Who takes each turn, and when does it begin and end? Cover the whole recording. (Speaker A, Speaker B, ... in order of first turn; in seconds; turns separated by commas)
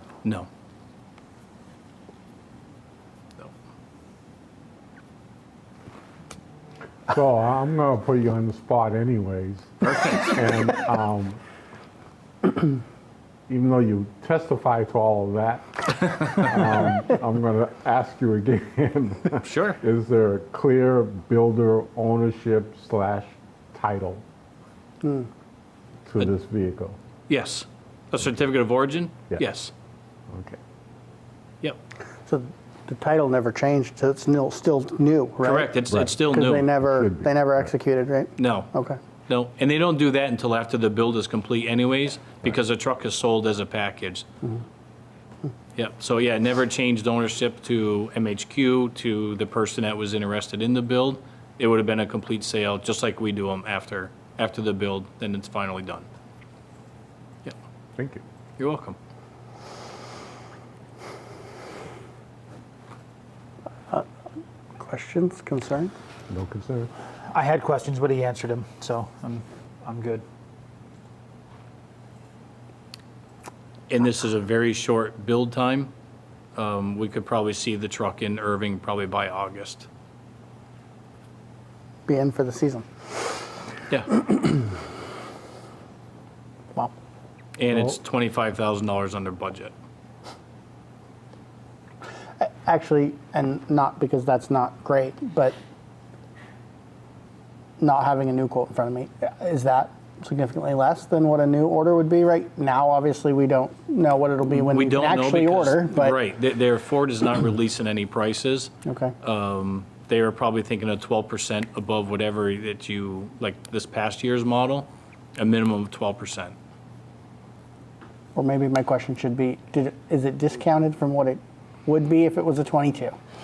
Speaker A: 7.1-11.4, Speaker B: 9.8-10.3, Speaker A: 13.5-24.2, Speaker B: 19.4-19.8, Speaker C: 25.0-25.3, Speaker A: 26.1-27.0, Speaker B: 27.3-29.7, Speaker A: 30.3-30.6, Speaker C: 32.3-39.0, Speaker B: 35.4-36.7, Speaker A: 35.9-36.2, Speaker A: 36.8-37.4, Speaker B: 38.4-38.7, Speaker B: 39.3-44.2, Speaker B: 45.8-56.1, Speaker A: 58.0-58.2, Speaker B: 58.6-59.0, Speaker C: 64.8-65.9, Speaker A: 66.3-66.9, Speaker D: 67.3-70.2, Speaker B: 73.9-75.9, Speaker B: 76.5-79.9, Speaker C: 82.1-82.9, Speaker B: 83.9-84.2, Speaker B: 87.6-89.7, Speaker C: 92.4-95.5, Speaker C: 97.8-106.2, Speaker B: 104.5-116.5, Speaker C: 108.8-109.1, Speaker C: 118.3-123.2